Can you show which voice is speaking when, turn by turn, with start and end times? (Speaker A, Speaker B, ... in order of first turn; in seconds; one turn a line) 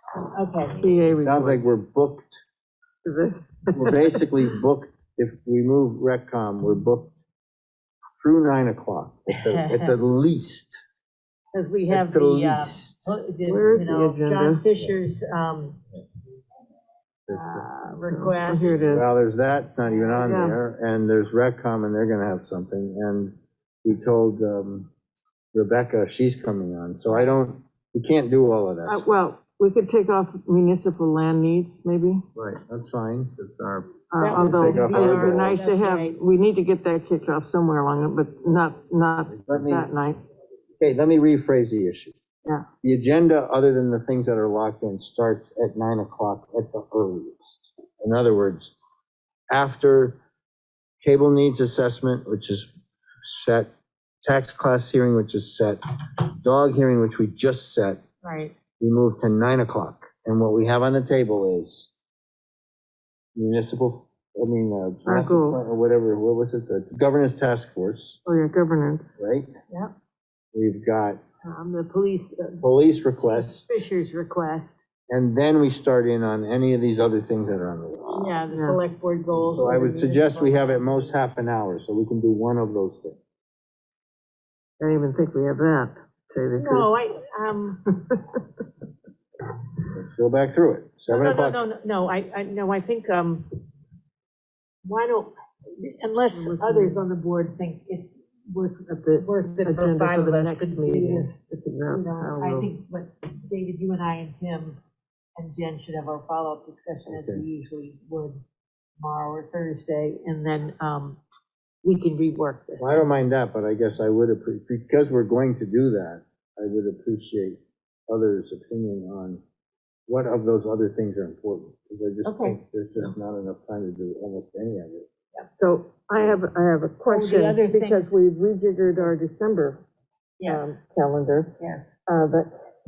Speaker A: 0.2-0.9
Speaker B: 0.7-1.6
Speaker C: 1.2-2.4
Speaker B: 3.0-4.2
Speaker C: 3.7-7.2
Speaker C: 8.2-10.8
Speaker A: 9.3-10.0
Speaker A: 11.5-15.8
Speaker C: 11.9-13.2
Speaker B: 13.5-14.6
Speaker A: 17.3-19.0
Speaker C: 17.3-17.6
Speaker B: 18.1-19.1
Speaker C: 18.7-24.9
Speaker A: 19.9-20.2
Speaker B: 20.2-20.6
Speaker C: 25.5-29.1
Speaker B: 28.9-32.2
Speaker C: 32.4-35.5
Speaker B: 34.1-40.2
Speaker A: 34.2-36.2
Speaker C: 39.3-39.9
Speaker C: 40.8-42.2
Speaker C: 42.8-48.7
Speaker C: 49.5-50.2
Speaker C: 51.0-52.7
Speaker C: 53.2-53.7
Speaker C: 54.2-55.8
Speaker C: 56.4-58.0
Speaker A: 58.2-58.5
Speaker C: 58.8-61.9
Speaker C: 63.4-68.2
Speaker B: 65.1-65.6
Speaker B: 68.2-69.1
Speaker C: 69.2-69.5
Speaker C: 70.5-71.2
Speaker A: 71.4-72.7
Speaker C: 72.6-73.7
Speaker A: 73.2-74.8
Speaker C: 75.1-78.3
Speaker A: 78.1-81.2
Speaker B: 78.5-78.8
Speaker C: 79.5-83.2
Speaker B: 84.8-86.9
Speaker A: 86.6-87.8
Speaker C: 89.9-91.6
Speaker A: 91.1-93.5
Speaker A: 94.8-101.3
Speaker B: 96.3-97.0
Speaker B: 99.0-102.8
Speaker A: 101.9-104.8
Speaker A: 105.4-108.4
Speaker C: 107.1-107.5
Speaker A: 109.0-111.2
Speaker A: 111.8-113.0
Speaker C: 112.8-119.4
Speaker C: 120.1-125.1
Speaker A: 122.2-122.6
Speaker B: 125.6-129.8
Speaker A: 127.0-128.1
Speaker A: 130.4-130.7
Speaker B: 130.4-131.5
Speaker A: 131.6-131.9
Speaker B: 132.1-132.5